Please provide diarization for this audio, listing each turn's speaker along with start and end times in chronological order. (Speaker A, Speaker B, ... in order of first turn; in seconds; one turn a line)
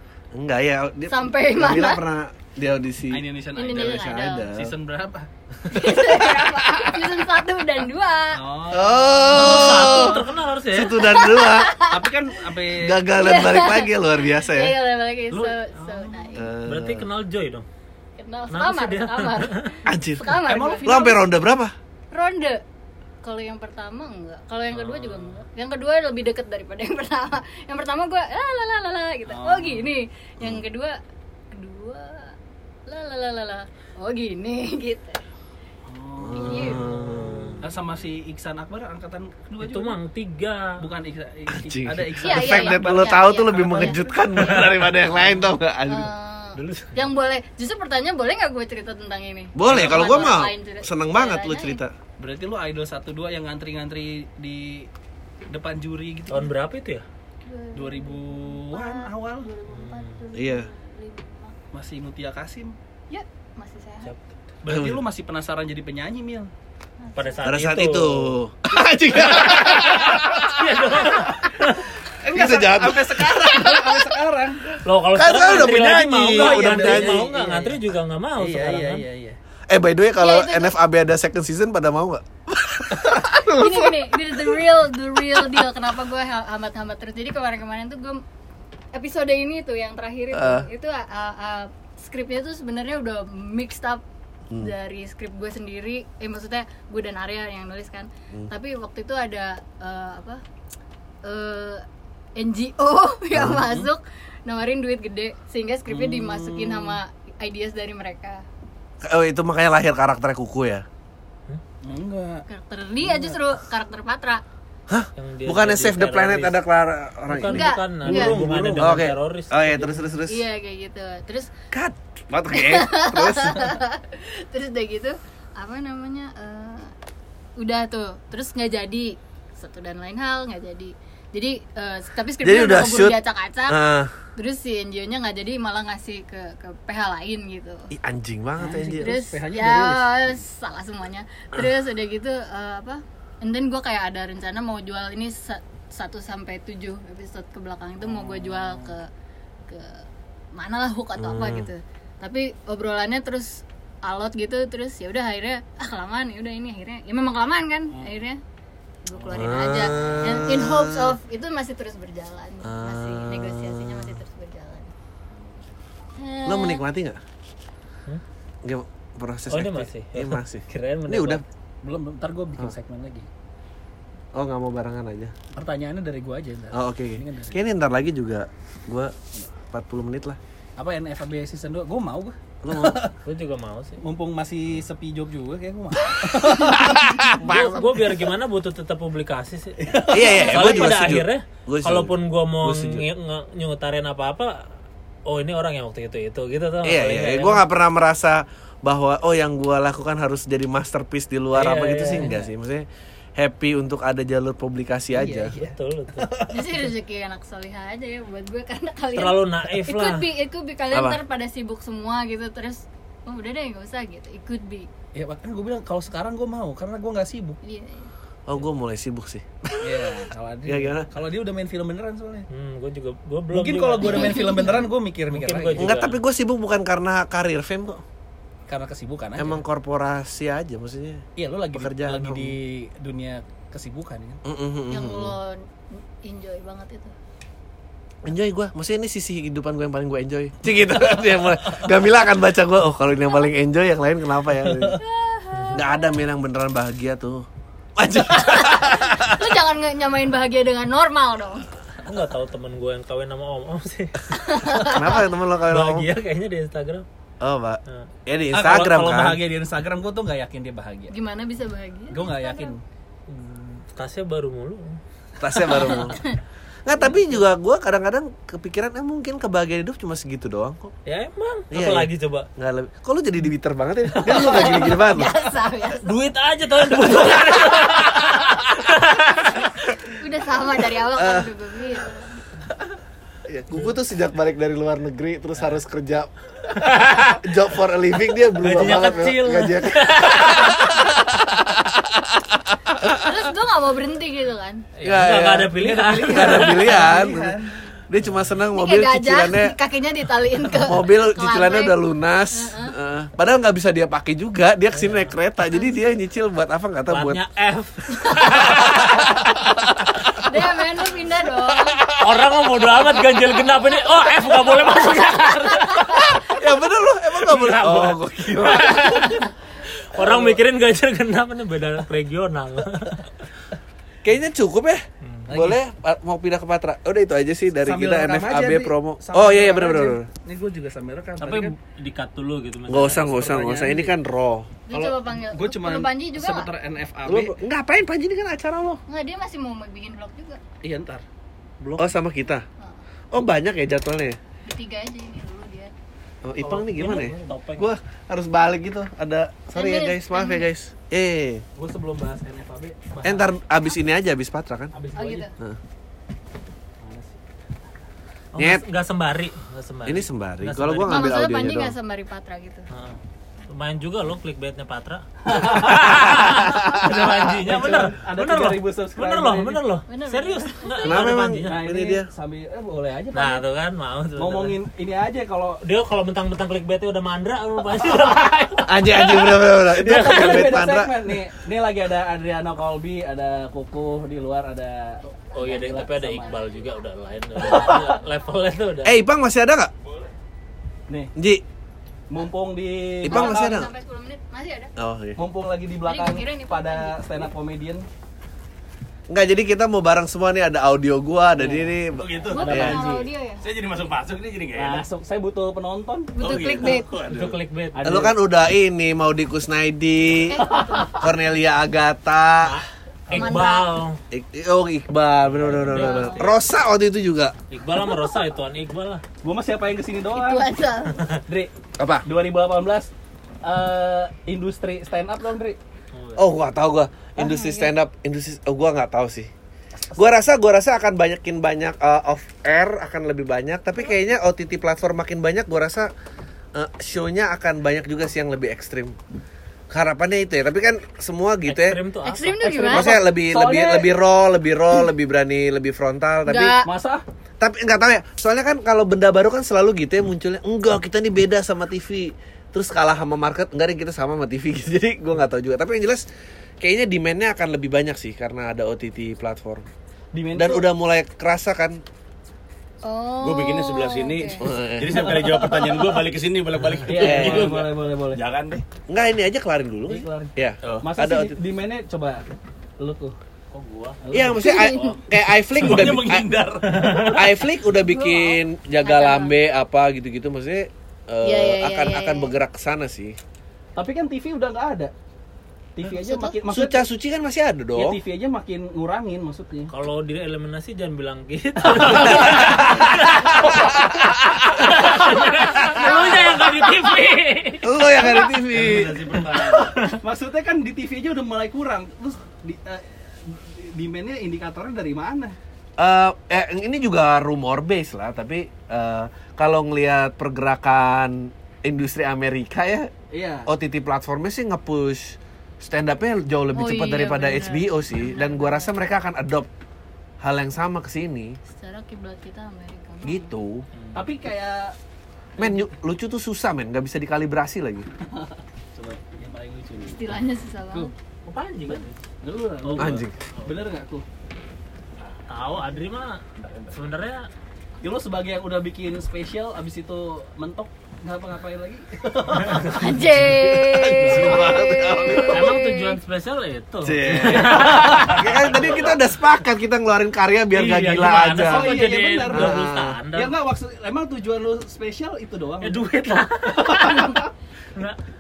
Speaker A: 0.3-3.2
Speaker B: 1.1-2.0
Speaker C: 3.1-6.2
Speaker B: 3.5-4.5
Speaker A: 3.8-4.7
Speaker B: 5.7-8.4
Speaker C: 8.3-9.8
Speaker A: 8.7-11.8
Speaker B: 9.2-10.2
Speaker D: 9.4-11.1
Speaker B: 11.0-12.1
Speaker C: 11.9-13.0
Speaker A: 12.8-14.7
Speaker B: 13.2-16.5
Speaker C: 15.3-16.4
Speaker A: 16.4-17.1
Speaker D: 16.6-17.7
Speaker B: 18.2-21.2
Speaker D: 18.5-19.8
Speaker A: 19.9-21.7
Speaker C: 20.3-21.2
Speaker B: 22.1-22.6
Speaker B: 23.2-31.0
Speaker D: 24.7-25.3
Speaker C: 29.3-29.9
Speaker B: 31.5-32.3
Speaker B: 32.9-35.2
Speaker C: 35.9-36.9
Speaker A: 36.2-37.6
Speaker B: 36.3-36.9
Speaker D: 36.7-37.6
Speaker C: 37.6-40.0
Speaker D: 39.6-40.8
Speaker C: 40.8-44.2
Speaker A: 41.5-46.1
Speaker B: 42.2-44.0
Speaker D: 44.4-44.9
Speaker B: 45.9-51.8
Speaker D: 46.6-47.0
Speaker A: 49.5-51.9
Speaker C: 49.6-50.4
Speaker C: 52.2-54.9
Speaker C: 55.5-56.5
Speaker D: 56.3-57.0
Speaker B: 57.5-61.6
Speaker C: 57.7-59.5
Speaker D: 59.7-60.2
Speaker A: 60.3-60.7
Speaker C: 61.7-62.8
Speaker B: 63.1-64.1
Speaker C: 64.6-66.5
Speaker A: 64.7-65.0
Speaker B: 67.0-67.6
Speaker D: 67.2-68.4
Speaker A: 67.4-70.6
Speaker D: 69.2-71.9
Speaker C: 72.1-74.7
Speaker A: 72.3-73.8
Speaker D: 74.8-79.0
Speaker A: 75.1-77.3
Speaker C: 76.2-77.8
Speaker C: 78.4-79.4
Speaker A: 79.7-84.0
Speaker B: 80.2-80.8
Speaker B: 83.5-88.2
Speaker B: 88.9-94.0
Speaker A: 90.3-90.7
Speaker B: 94.6-100.4
Speaker B: 101.2-101.8
Speaker B: 102.4-108.5
Speaker A: 103.3-103.6
Speaker C: 103.5-103.9
Speaker C: 105.9-107.0
Speaker A: 109.0-110.8
Speaker C: 111.8-112.5
Speaker B: 112.5-114.4
Speaker C: 113.0-113.4
Speaker A: 114.9-117.7
Speaker D: 115.2-116.6
Speaker D: 117.3-120.0
Speaker B: 117.5-118.5
Speaker C: 118.0-119.0
Speaker A: 118.7-120.5
Speaker B: 120.3-121.5
Speaker A: 121.7-123.8
Speaker B: 122.5-126.9
Speaker B: 127.6-133.8
Speaker A: 132.4-134.1
Speaker B: 134.4-137.9
Speaker A: 137.9-139.1
Speaker C: 138.6-140.4
Speaker B: 139.0-149.1
Speaker C: 148.0-149.0
Speaker B: 149.7-158.4
Speaker A: 151.2-151.7
Speaker B: 159.1-164.9
Speaker A: 159.3-161.2
Speaker C: 159.9-160.3
Speaker A: 162.6-164.2
Speaker C: 165.3-165.8
Speaker B: 166.2-166.8
Speaker A: 166.4-167.2
Speaker A: 168.6-171.4
Speaker D: 169.5-171.4
Speaker C: 171.8-173.3
Speaker A: 174.3-175.3
Speaker C: 175.5-177.6
Speaker A: 176.7-179.2
Speaker A: 179.7-180.4
Speaker C: 180.8-183.2
Speaker A: 182.6-183.1
Speaker D: 183.2-184.0
Speaker C: 184.0-187.8
Speaker A: 186.7-187.8
Speaker D: 187.4-194.7
Speaker C: 189.8-191.2
Speaker A: 190.1-193.1
Speaker D: 195.3-197.6
Speaker A: 196.8-202.9
Speaker D: 201.5-202.4
Speaker C: 202.1-202.4
Speaker A: 203.4-205.5
Speaker C: 205.1-206.8
Speaker D: 205.5-206.3
Speaker B: 206.5-214.9
Speaker D: 209.2-210.2
Speaker A: 210.9-211.2
Speaker C: 215.1-217.6
Speaker B: 217.6-218.1
Speaker A: 218.5-220.0
Speaker C: 219.8-222.5
Speaker A: 220.7-221.1
Speaker D: 222.5-224.7
Speaker C: 223.5-225.9
Speaker B: 224.0-224.9
Speaker D: 225.3-226.2
Speaker A: 225.8-228.0
Speaker C: 228.7-229.6
Speaker A: 229.4-232.6
Speaker C: 231.4-234.4
Speaker A: 234.4-235.4
Speaker B: 234.9-237.1
Speaker A: 238.2-245.0
Speaker C: 244.6-245.0
Speaker B: 245.0-246.2
Speaker D: 245.5-245.8
Speaker A: 245.7-247.5
Speaker A: 248.0-249.4
Speaker B: 248.2-251.7
Speaker D: 252.0-257.1
Speaker B: 254.3-255.0
Speaker A: 254.8-256.1
Speaker A: 257.4-259.4
Speaker C: 258.5-261.1
Speaker B: 261.1-262.8
Speaker C: 262.1-262.8
Speaker D: 263.3-265.0
Speaker A: 265.4-266.2
Speaker B: 265.7-266.4
Speaker A: 266.9-270.9
Speaker D: 271.1-272.5
Speaker A: 271.7-275.4
Speaker D: 274.2-274.9
Speaker B: 274.2-276.2
Speaker D: 276.0-279.7
Speaker B: 280.0-282.4
Speaker A: 281.2-281.5
Speaker A: 283.5-286.3
Speaker D: 286.7-287.4
Speaker A: 287.3-293.3
Speaker D: 288.6-291.1
Speaker B: 293.1-294.9
Speaker D: 295.0-297.1
Speaker A: 295.0-297.6
Speaker C: 295.1-297.8
Speaker A: 298.1-299.8
Speaker B: 298.7-302.9
Speaker A: 300.8-307.4
Speaker D: 305.0-305.3
Speaker D: 307.1-309.3
Speaker B: 308.2-308.5
Speaker A: 308.6-310.5
Speaker B: 310.4-312.0
Speaker A: 311.9-312.2
Speaker D: 312.1-316.4
Speaker B: 315.7-316.3
Speaker A: 316.2-319.3
Speaker D: 317.4-323.3
Speaker A: 320.2-320.6
Speaker A: 324.2-330.3
Speaker C: 325.4-325.8
Speaker C: 327.8-331.8
Speaker D: 331.4-333.6
Speaker A: 332.9-334.7
Speaker C: 333.1-334.2
Speaker B: 334.9-336.7
Speaker C: 334.9-337.6
Speaker A: 337.3-339.0
Speaker B: 339.1-340.6
Speaker C: 340.8-341.3
Speaker D: 341.8-342.1
Speaker A: 342.0-342.6
Speaker A: 343.3-344.4
Speaker B: 344.7-345.9
Speaker A: 346.4-351.6
Speaker D: 346.6-347.9
Speaker B: 349.7-350.7
Speaker C: 351.8-353.5
Speaker A: 353.2-354.9
Speaker C: 354.9-355.5
Speaker B: 355.2-355.5
Speaker C: 357.0-357.4
Speaker D: 358.5-361.4
Speaker A: 358.6-358.8
Speaker A: 360.1-361.9
Speaker B: 361.1-362.9
Speaker D: 362.9-371.9
Speaker C: 365.5-366.5
Speaker C: 367.3-369.8
Speaker B: 370.1-371.3
Speaker A: 371.0-372.3
Speaker C: 371.6-373.6
Speaker D: 373.3-374.8
Speaker C: 374.4-375.8
Speaker D: 375.8-380.7
Speaker A: 378.8-381.3
Speaker C: 380.0-386.6
Speaker D: 385.5-389.2
Speaker B: 386.4-387.0
Speaker C: 387.6-388.2
Speaker A: 389.0-389.9
Speaker C: 391.1-391.3
Speaker A: 391.4-391.6
Speaker C: 392.3-393.8
Speaker A: 393.2-393.9
Speaker B: 393.3-394.9
Speaker A: 395.0-395.4
Speaker C: 395.4-398.1
Speaker B: 396.1-397.3
Speaker A: 399.3-403.0
Speaker C: 401.6-402.0
Speaker E: 402.1-402.8
Speaker B: 402.5-403.6
Speaker C: 402.5-403.3
Speaker E: 403.6-405.0
Speaker C: 404.7-406.4
Speaker B: 406.4-407.1
Speaker E: 406.4-407.6
Speaker D: 407.2-408.2
Speaker C: 407.9-408.4
Speaker A: 408.0-412.8
Speaker B: 410.5-411.2
Speaker C: 410.7-411.0
Speaker D: 412.6-414.2
Speaker B: 413.3-414.0
Speaker A: 414.3-417.6
Speaker C: 415.5-415.9
Speaker D: 415.7-416.6
Speaker B: 415.9-416.5
Speaker D: 417.7-419.2
Speaker C: 419.4-420.7
Speaker B: 420.3-421.2
Speaker D: 421.1-421.4
Speaker C: 421.5-421.7
Speaker A: 422.0-422.3
Speaker C: 422.2-423.1
Speaker C: 423.6-425.8
Speaker D: 426.1-426.5
Speaker A: 426.4-429.5
Speaker B: 427.4-427.9
Speaker A: 430.2-436.1
Speaker A: 436.7-439.2
Speaker A: 439.9-442.0
Speaker D: 441.7-442.8
Speaker B: 442.2-443.2
Speaker C: 442.6-444.2
Speaker A: 442.9-446.8
Speaker B: 446.5-446.9
Speaker C: 446.8-447.2
Speaker A: 447.6-456.3
Speaker A: 456.8-459.9
Speaker C: 460.3-460.9
Speaker A: 460.6-462.0
Speaker B: 463.0-464.6
Speaker E: 463.4-468.8
Speaker A: 464.6-465.5
Speaker C: 467.0-468.4
Speaker A: 467.2-467.7
Speaker A: 469.1-471.6
Speaker C: 470.1-472.4
Speaker E: 470.8-471.1
Speaker C: 473.0-473.4
Speaker D: 473.7-475.2
Speaker C: 474.2-474.7
Speaker A: 474.3-476.5
Speaker B: 474.6-475.2
Speaker E: 475.8-477.3
Speaker C: 476.9-477.5
Speaker D: 476.9-477.4
Speaker A: 477.3-483.4
Speaker B: 477.9-479.5
Speaker B: 481.4-482.5
Speaker C: 483.9-485.1
Speaker C: 485.9-487.1
Speaker B: 486.1-486.5
Speaker A: 486.7-488.2
Speaker C: 487.9-489.9
Speaker D: 489.9-500.2
Speaker C: 491.9-492.8
Speaker A: 492.3-493.0
Speaker A: 493.6-494.9
Speaker A: 497.8-499.2
Speaker E: 498.8-499.8
Speaker C: 499.5-505.6
Speaker A: 506.0-513.1
Speaker C: 513.3-513.7
Speaker A: 513.7-519.7
Speaker B: 516.7-518.9
Speaker A: 520.4-521.6
Speaker B: 521.7-523.5
Speaker A: 523.2-523.9
Speaker D: 523.9-524.3
Speaker C: 524.1-525.0
Speaker A: 525.6-528.1
Speaker C: 525.6-525.9
Speaker C: 528.3-530.4
Speaker B: 530.0-531.1
Speaker D: 531.5-532.2
Speaker C: 531.9-534.2
Speaker D: 532.8-533.8
Speaker A: 533.0-533.3
Speaker D: 535.5-537.5
Speaker C: 538.0-543.5
Speaker B: 542.9-546.2
Speaker A: 544.2-545.8
Speaker C: 544.2-544.6
Speaker E: 544.3-544.7
Speaker D: 545.4-548.9
Speaker A: 547.0-553.2
Speaker C: 547.3-548.4
Speaker E: 548.4-549.1
Speaker D: 550.8-553.5
Speaker C: 550.8-556.0
Speaker D: 555.8-558.2
Speaker B: 556.9-557.4